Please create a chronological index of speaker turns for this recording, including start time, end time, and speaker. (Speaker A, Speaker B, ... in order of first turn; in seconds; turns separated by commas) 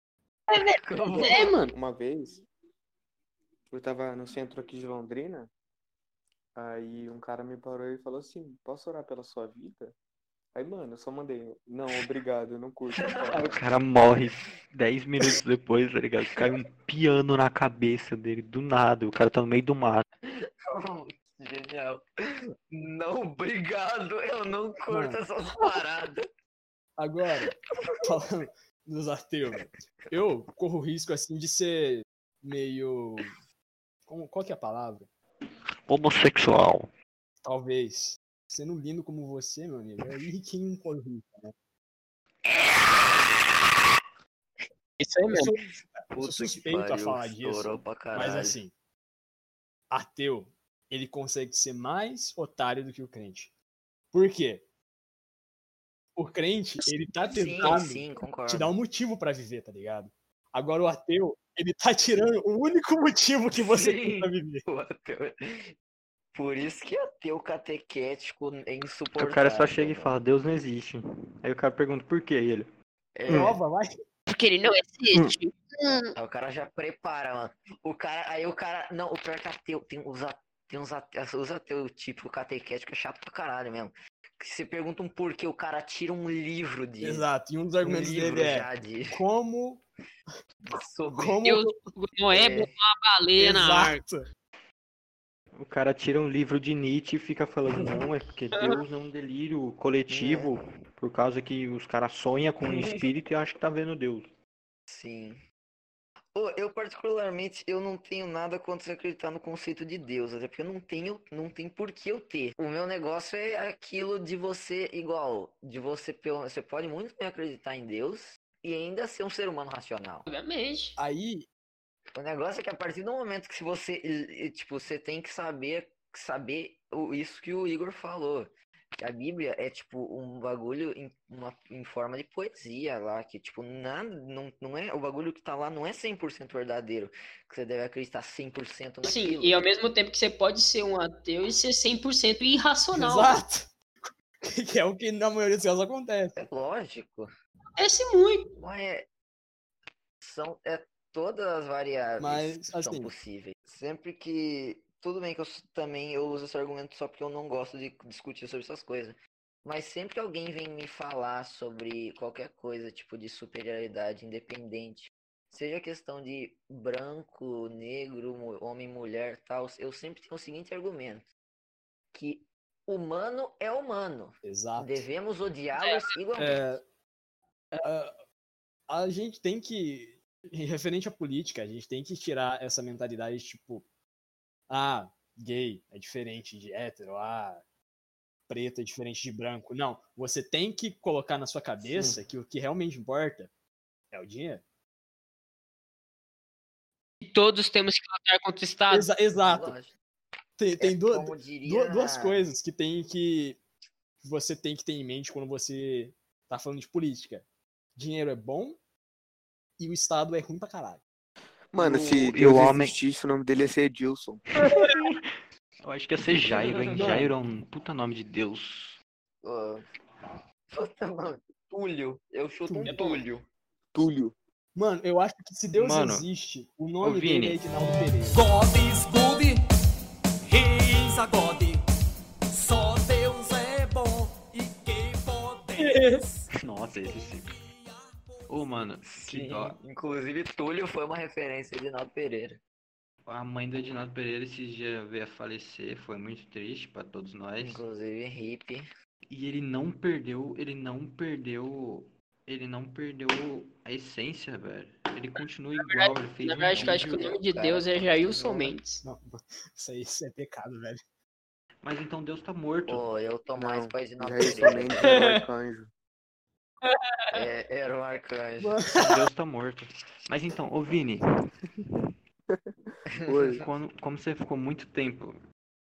Speaker A: 0.5-1.7, Speaker B: 0.8-1.4, Speaker C: 1.1-2.4, Speaker C: 3.7-5.5, Speaker C: 6.5-9.9, Speaker C: 10.5-13.5, Speaker D: 13.3-20.0, Speaker B: 20.2-22.0, Speaker B: 22.7-26.2, Speaker E: 24.9-25.2, Speaker E: 27.0-33.3, Speaker B: 27.7-28.1, Speaker E: 34.1-35.1, Speaker D: 35.9-36.9, Speaker E: 37.4-41.5, Speaker B: 42.4-43.4, Speaker A: 45.0-45.5, Speaker E: 45.3-48.7, Speaker B: 46.1-48.6, Speaker E: 49.9-53.5, Speaker E: 54.1-54.6, Speaker E: 56.1-64.6, Speaker B: 56.8-58.8, Speaker B: 63.5-65.7, Speaker B: 66.3-70.2, Speaker D: 69.2-72.7, Speaker B: 73.1-73.5, Speaker E: 73.3-73.9, Speaker A: 74.3-76.1, Speaker B: 76.2-87.3, Speaker E: 87.0-89.8, Speaker B: 87.8-89.2, Speaker B: 90.7-91.4, Speaker E: 91.1-91.8, Speaker A: 91.4-94.0, Speaker B: 92.3-92.7, Speaker E: 93.4-94.2, Speaker D: 95.5-104.3, Speaker B: 100.1-100.5, Speaker B: 104.9-105.4, Speaker B: 106.3-120.2, Speaker A: 120.3-121.0, Speaker E: 121.0-121.5, Speaker B: 122.1-139.5, Speaker A: 139.0-143.3, Speaker E: 142.9-146.3, Speaker B: 146.3-147.3, Speaker A: 147.8-148.5, Speaker B: 148.6-149.1, Speaker B: 150.2-171.3, Speaker E: 152.2-153.1, Speaker B: 172.1-176.8, Speaker E: 174.4-175.1, Speaker A: 175.8-176.0, Speaker E: 176.4-176.8, Speaker E: 177.8-178.1, Speaker E: 178.9-183.8, Speaker E: 184.7-187.6, Speaker E: 188.5-193.5, Speaker E: 194.1-194.6, Speaker A: 197.2-199.1, Speaker E: 198.9-199.7, Speaker B: 199.3-199.9, Speaker E: 200.6-203.6, Speaker B: 200.8-202.4, Speaker E: 204.2-207.4, Speaker E: 207.9-208.8, Speaker E: 209.8-211.0, Speaker C: 211.7-214.4, Speaker D: 211.8-212.9, Speaker D: 214.9-215.2, Speaker D: 215.8-219.0, Speaker E: 217.0-217.3, Speaker B: 219.4-219.8, Speaker B: 220.7-223.5, Speaker E: 222.7-223.2, Speaker C: 223.9-224.3, Speaker E: 224.7-228.4, Speaker D: 225.8-226.3, Speaker D: 227.0-227.6, Speaker F: 228.3-229.6, Speaker F: 230.4-231.8, Speaker F: 232.5-238.8, Speaker A: 235.8-236.2, Speaker D: 236.6-237.5, Speaker D: 238.5-239.8, Speaker B: 239.0-242.6, Speaker D: 243.2-247.8, Speaker B: 247.6-248.8, Speaker D: 249.3-257.4, Speaker A: 255.8-259.0, Speaker B: 256.7-258.7, Speaker E: 259.0-261.0, Speaker D: 261.8-263.1, Speaker B: 262.9-265.1, Speaker C: 263.6-265.9, Speaker A: 264.6-265.4, Speaker A: 266.9-267.4, Speaker B: 267.3-268.8, Speaker E: 268.6-269.2, Speaker D: 268.9-271.2, Speaker C: 273.2-273.6, Speaker B: 273.3-273.6, Speaker D: 273.6-275.4